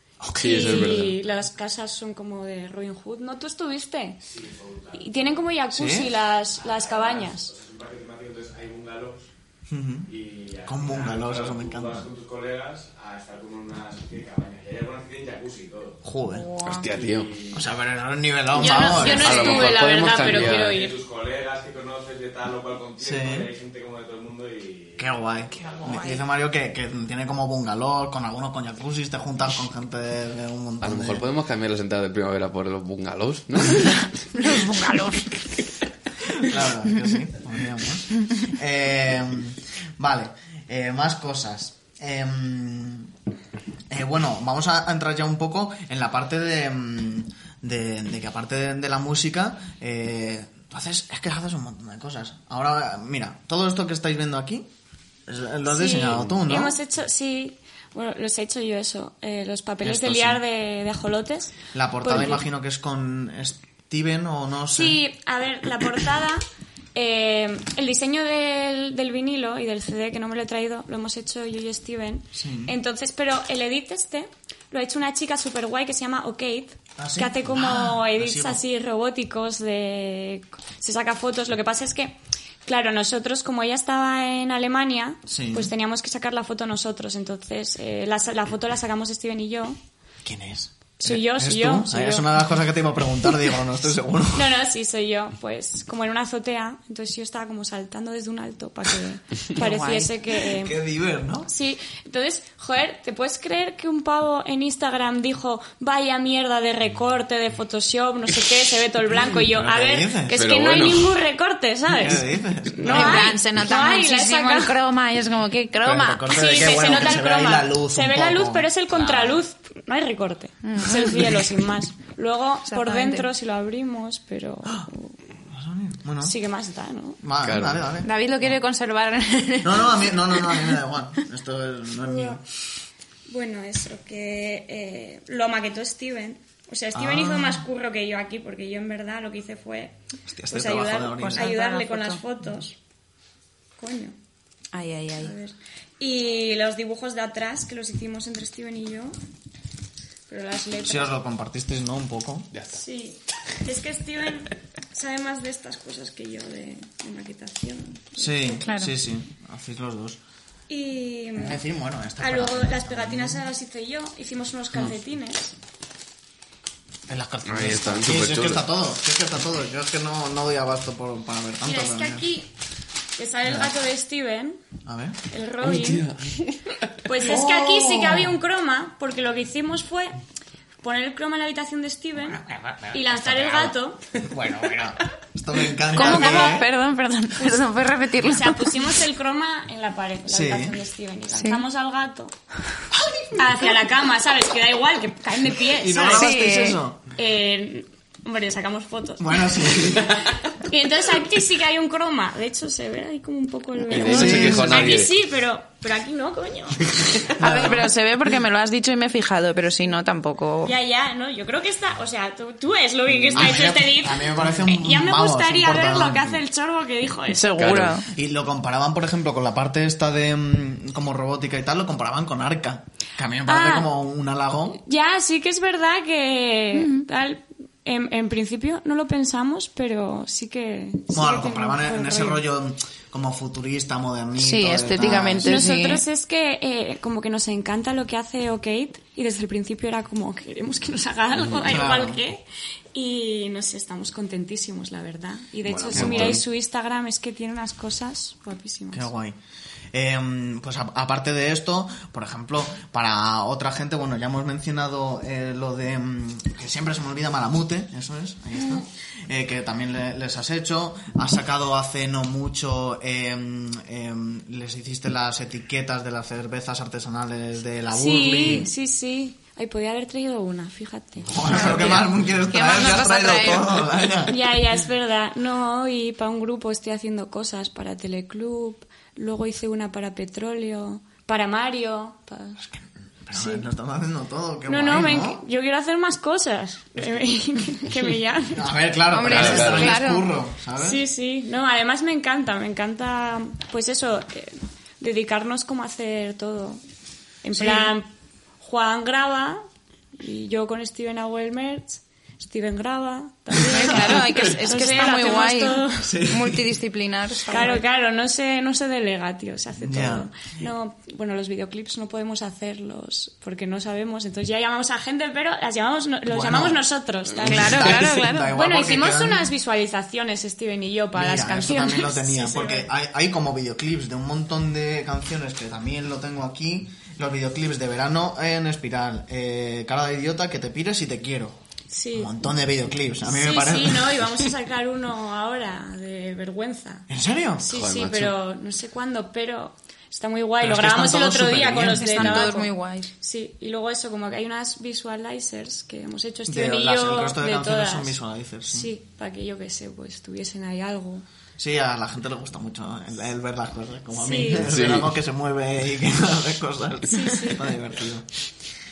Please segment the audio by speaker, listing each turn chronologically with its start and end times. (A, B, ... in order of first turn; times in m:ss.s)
0:00.2-0:01.0 A
0:00.2-0:01.2 B
0:00.4-0:04.2 C
0:04.2-0:05.4 D
0:04.9-0:07.5 C
0:05.7-0:06.1 A
0:06.6-0:09.3 D
0:09.7-0:10.1 A
0:10.0-0:16.0 D
0:10.6-0:12.1 A
0:16.0-0:16.4 A
0:16.3-0:16.9 E
0:16.6-0:17.3 B
0:16.8-0:17.7 D
0:17.5-0:19.5 A
0:18.5-0:20.9 C
0:18.8-0:20.8 B
0:19.2-0:25.1 D
0:23.0-0:23.5 A
0:25.0-0:31.3 A
0:25.6-0:26.2 E
0:30.8-0:34.4 B
0:34.3-0:35.3 E
0:36.2-0:43.1 A
0:43.9-0:54.7 A
0:55.3-0:56.8 A
0:55.6-1:02.4 C
0:59.8-1:00.4 A
1:01.7-1:05.0 A
1:04.7-1:29.8 C
1:12.3-1:12.7 A
1:17.0-1:18.6 A
1:25.3-1:25.7 A
1:30.2-1:34.5 A
1:31.0-1:32.3 C
1:34.3-1:40.8 C
1:39.5-1:40.1 E
1:40.4-1:41.5 A
1:41.4-1:54.7 C
1:49.1-1:50.4 A
1:50.3-1:51.1 B
1:51.9-1:53.4 A
1:52.9-1:56.2 E
1:55.8-1:59.4 A
1:56.3-2:05.2 C
2:00.6-2:01.4 E
2:02.6-2:03.2 E
2:05.5-2:06.4 A
2:06.2-2:07.2 C
2:07.2-2:08.6 A
2:07.4-2:07.9 B
2:08.0-2:10.8 E
2:09.6-2:12.4 A
2:12.0-2:12.4 C
2:13.3-2:20.0 C
2:16.9-2:17.6 A
2:20.3-2:21.5 A
2:20.5-2:22.8 C
2:21.2-2:22.2 E
2:23.8-2:24.1 C
2:24.7-2:25.3 E
2:25.2-2:29.2 C
2:30.3-2:31.2 C
2:30.8-2:32.5 A
2:32.7-2:38.7 C
2:38.2-2:40.2 A
2:38.6-2:38.9 E
2:40.7-2:41.6 C
2:41.4-2:43.4 A
2:42.2-2:45.5 C
2:47.1-2:52.3 A
2:47.4-2:48.7 B
2:51.6-2:52.5 C
2:53.2-2:54.6 C
2:53.4-2:53.7 A
2:54.8-2:55.2 A
2:55.3-2:56.0 C
2:55.6-2:56.7 B
2:57.0-3:00.2 C
2:57.2-2:58.4 A
3:00.8-3:04.0 C
3:02.4-3:02.9 A
3:04.3-3:06.7 A
3:05.9-3:08.8 E
3:05.9-3:06.6 C
3:07.4-3:07.6 C
3:08.3-3:12.3 C
3:10.3-3:10.8 A
3:11.3-3:11.6 E
3:12.9-3:13.7 A
3:13.3-3:27.2 C
3:15.6-3:17.0 A
3:16.0-3:16.8 E
3:19.2-3:20.4 A
3:23.9-3:25.1 B
3:24.0-3:25.0 A
3:24.0-3:24.5 E
3:27.3-3:27.9 A
3:27.4-3:30.7 E
3:30.6-3:37.6 C
3:33.3-3:36.4 A
3:37.3-3:38.1 E
3:37.6-3:38.0 B
3:38.1-3:44.8 A
3:43.4-3:43.9 C
3:44.8-3:52.4 C
3:46.7-3:47.0 E
3:51.1-3:55.7 A
3:54.4-3:56.0 E
3:55.4-4:09.1 C
4:01.6-4:02.2 A
4:05.7-4:06.4 B
4:05.9-4:06.4 A
4:08.9-4:09.4 A
4:09.9-4:28.7 A
4:27.9-4:32.1 C
4:31.3-4:34.4 A
4:32.5-4:33.9 E
4:34.2-4:42.6 C
4:42.6-4:45.4 A
4:43.3-4:43.6 C
4:44.6-4:48.7 C
4:48.5-4:51.0 A
4:49.1-4:50.3 E
4:49.2-4:50.0 B
4:50.8-4:56.8 C
4:57.4-4:58.1 C
4:57.6-4:57.9 E
4:58.6-4:59.6 C
5:00.1-5:06.2 C
5:03.6-5:07.8 E
5:06.0-5:06.6 A
5:07.5-5:22.9 C
5:09.8-5:10.3 A
5:16.3-5:16.8 A
5:17.4-5:19.5 A
5:17.4-5:18.5 E
5:21.1-5:31.6 A
5:31.9-5:32.3 C
5:32.1-5:34.3 A
5:33.2-5:37.1 C
5:37.1-5:37.7 A
5:37.6-5:51.2 C
5:37.7-5:38.3 B
5:40.6-5:42.5 A
5:41.9-5:43.1 E
5:46.5-5:48.9 A
5:51.6-5:58.3 A
5:54.1-5:54.7 C
5:54.6-5:55.1 B
5:57.1-5:57.6 C